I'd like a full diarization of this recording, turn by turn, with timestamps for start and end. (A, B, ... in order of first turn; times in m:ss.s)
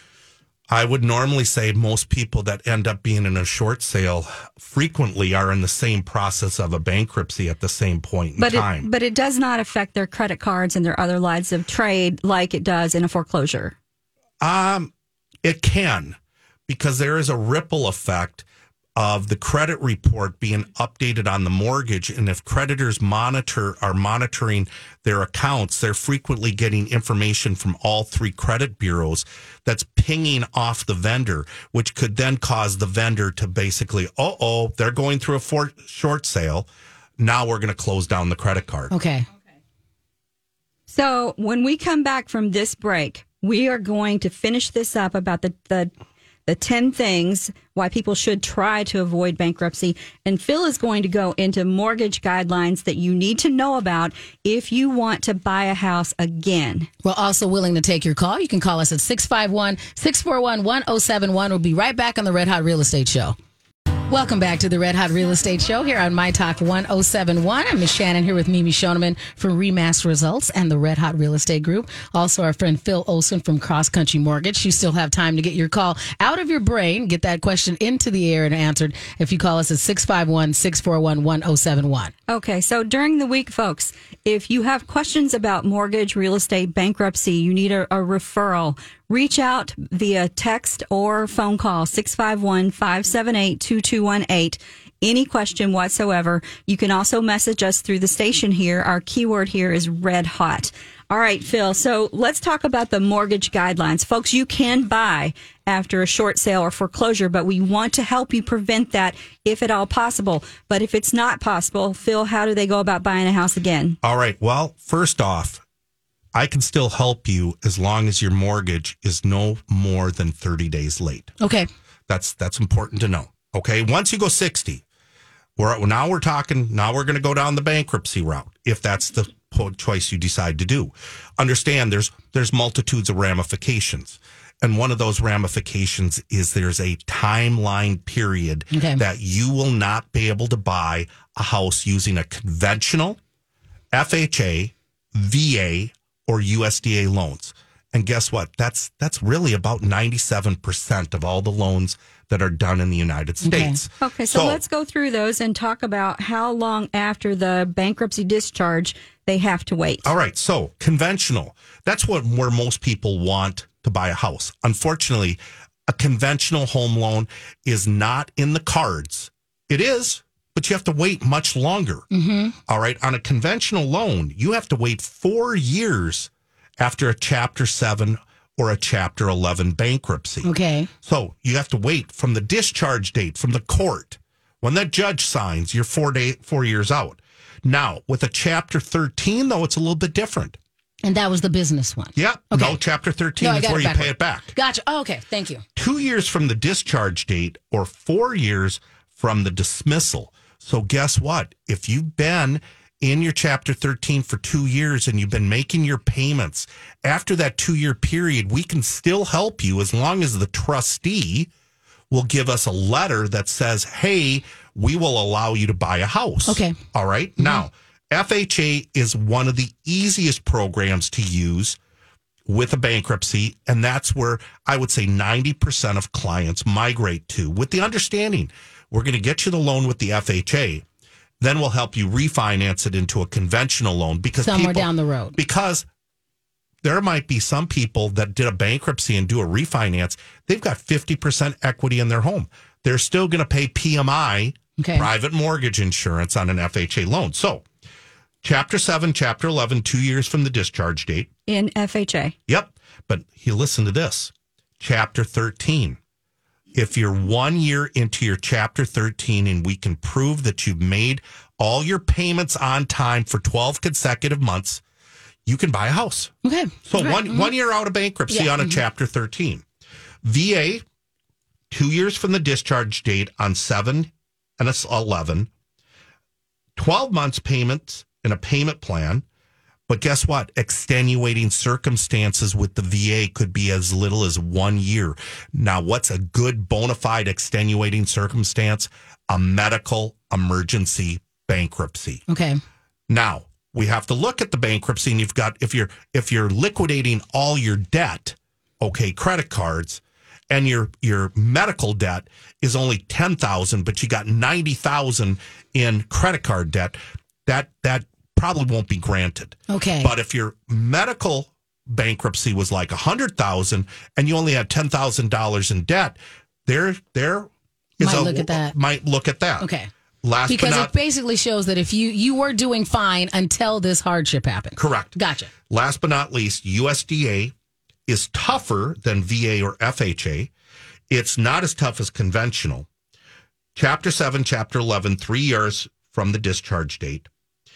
0:00.7-0:08.9 A
0:08.4-0:13.8 B
0:14.4-0:14.9 A
0:15.4-0:16.2 A
0:16.7-0:18.4 A
0:19.0-0:36.7 A
0:37.2-0:38.9 A
0:38.9-0:39.3 C
0:40.9-0:45.9 B
0:46.5-0:56.9 B
0:57.0-1:03.4 C
1:04.1-1:22.1 C
1:22.3-1:54.0 B
1:54.0-1:55.6 A
1:56.3-2:01.3 A
2:01.4-2:01.7 C
2:02.1-2:04.8 A
2:05.6-2:23.2 A
2:18.7-2:19.0 C
2:23.9-2:34.6 A
2:33.4-2:33.8 C
2:34.0-2:40.1 B
2:40.0-2:52.1 A
2:52.1-2:52.6 C
2:52.7-3:00.5 A
3:00.4-3:00.9 C
3:01.0-3:10.6 A
3:11.0-3:12.8 C
3:12.2-3:14.5 A
3:13.4-3:15.6 C
3:15.8-3:31.5 A
3:32.1-3:41.8 A
3:36.5-3:36.8 C
3:42.5-3:50.8 A
3:51.4-3:55.8 A
3:54.4-3:55.4 C
3:56.8-4:07.6 A
4:04.8-4:05.1 C
4:08.4-4:11.3 A
4:11.5-4:12.4 B
4:12.5-4:16.0 A
4:16.7-4:24.8 A
4:25.5-4:26.3 A
4:26.4-4:27.5 C
4:26.9-4:29.6 A
4:28.3-4:28.8 C
4:30.2-4:30.8 A
4:31.7-4:35.5 A
4:36.8-4:39.2 A
4:39.9-4:52.2 A
4:52.3-4:52.6 C
4:53.1-5:19.7 A
5:09.7-5:10.1 C
5:18.0-5:18.7 C
5:19.6-5:19.9 C
5:20.2-5:20.9 A
5:20.5-5:25.5 C
5:24.8-5:25.2 A
5:25.7-5:27.5 A
5:28.1-5:30.5 A
5:31.1-5:32.9 A
5:33.8-5:37.3 A